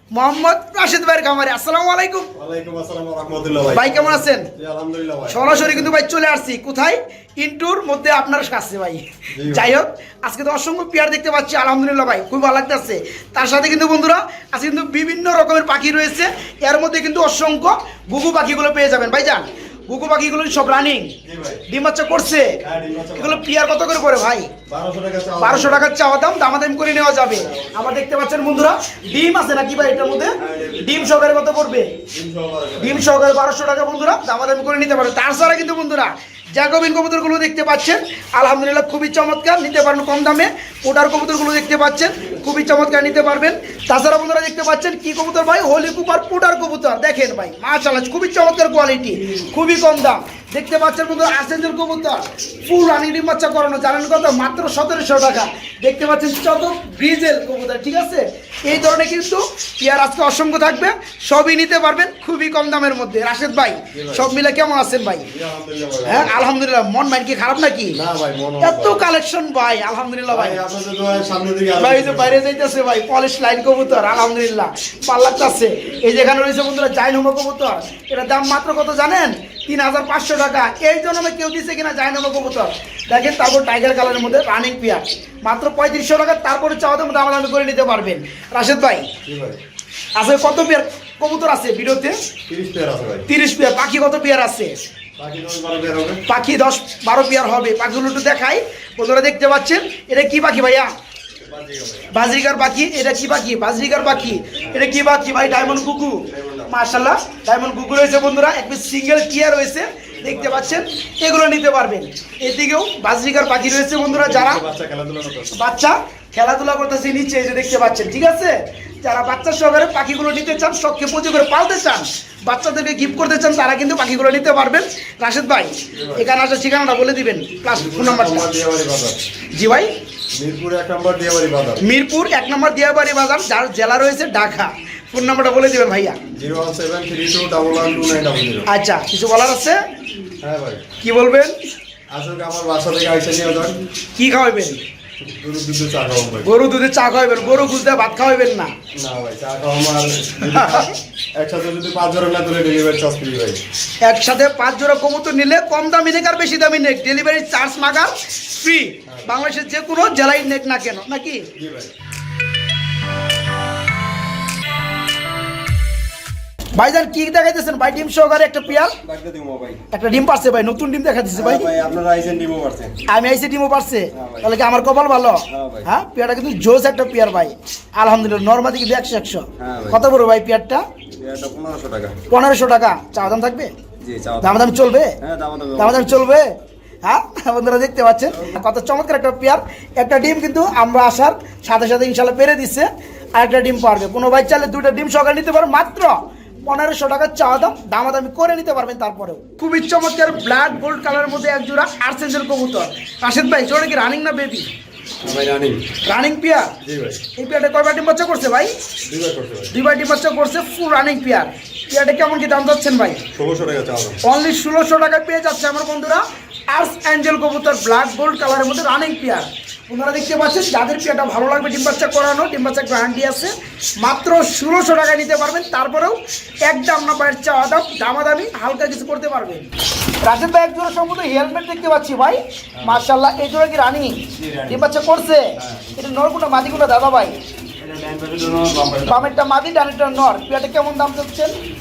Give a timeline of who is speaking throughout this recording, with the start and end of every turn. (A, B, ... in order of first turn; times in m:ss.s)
0:00.1-0:02.3 A
0:02.3-0:05.9 B
0:03.7-0:04.5 A
0:05.3-0:21.2 A
0:09.3-0:09.8 B
0:21.2-0:21.6 B
0:21.7-0:22.6 A
0:22.6-0:23.4 B
0:23.2-0:24.5 A
0:24.6-0:25.8 B
0:25.4-0:32.0 A
0:27.3-0:27.8 B
0:30.4-0:31.2 B
0:32.1-0:33.2 B
0:32.8-1:05.3 A
1:03.9-1:04.3 B
1:05.2-1:06.4 B
1:06.0-1:08.0 A
1:07.9-1:09.0 B
1:08.6-1:10.6 A
1:10.3-1:12.4 B
1:11.8-1:29.1 A
1:29.2-1:29.6 B
1:30.2-1:32.2 A
1:32.5-1:33.3 B
1:33.3-1:34.8 A
1:35.2-1:36.2 B
1:36.3-1:40.9 A
1:41.4-1:42.1 B
1:42.1-1:54.6 A
1:44.5-1:46.8 B
1:50.2-1:50.8 B
1:54.1-1:55.6 B
1:55.5-2:08.5 A
2:05.9-2:06.3 B
2:07.7-2:09.2 B
2:09.5-2:09.9 A
2:10.3-2:11.8 B
2:11.8-2:16.2 A
2:16.3-2:18.7 B
2:18.7-2:19.8 A
2:20.4-2:20.8 B
2:21.0-2:21.6 A
2:22.1-2:23.8 B
2:24.2-2:24.8 A
2:25.2-2:26.5 B
2:26.4-2:28.7 A
2:27.4-2:27.6 B
2:28.9-2:33.6 B
2:30.4-2:31.0 A
2:34.0-2:41.5 A
2:39.1-2:39.3 B
2:41.5-2:41.9 B
2:46.7-2:49.0 A
2:48.7-2:49.8 B
2:49.9-2:51.7 A
2:51.3-2:53.0 B
2:53.1-3:00.8 A
2:54.1-2:54.5 B
2:55.5-2:55.9 B
2:59.6-3:00.0 B
3:01.2-3:02.2 B
3:02.3-3:03.7 A
3:04.0-3:06.3 B
3:04.4-3:05.2 A
3:05.8-3:24.7 A
3:25.2-3:25.9 B
3:26.0-3:26.7 A
3:26.8-3:27.2 B
3:27.4-3:28.7 A
3:29.0-3:29.7 B
3:29.7-3:33.2 A
3:33.3-3:34.2 B
3:34.2-3:49.7 A
3:50.2-3:57.4 A
3:52.8-3:53.0 B
3:54.3-3:54.9 B
3:55.6-3:56.0 B
3:57.8-3:59.3 B
3:59.0-4:01.5 A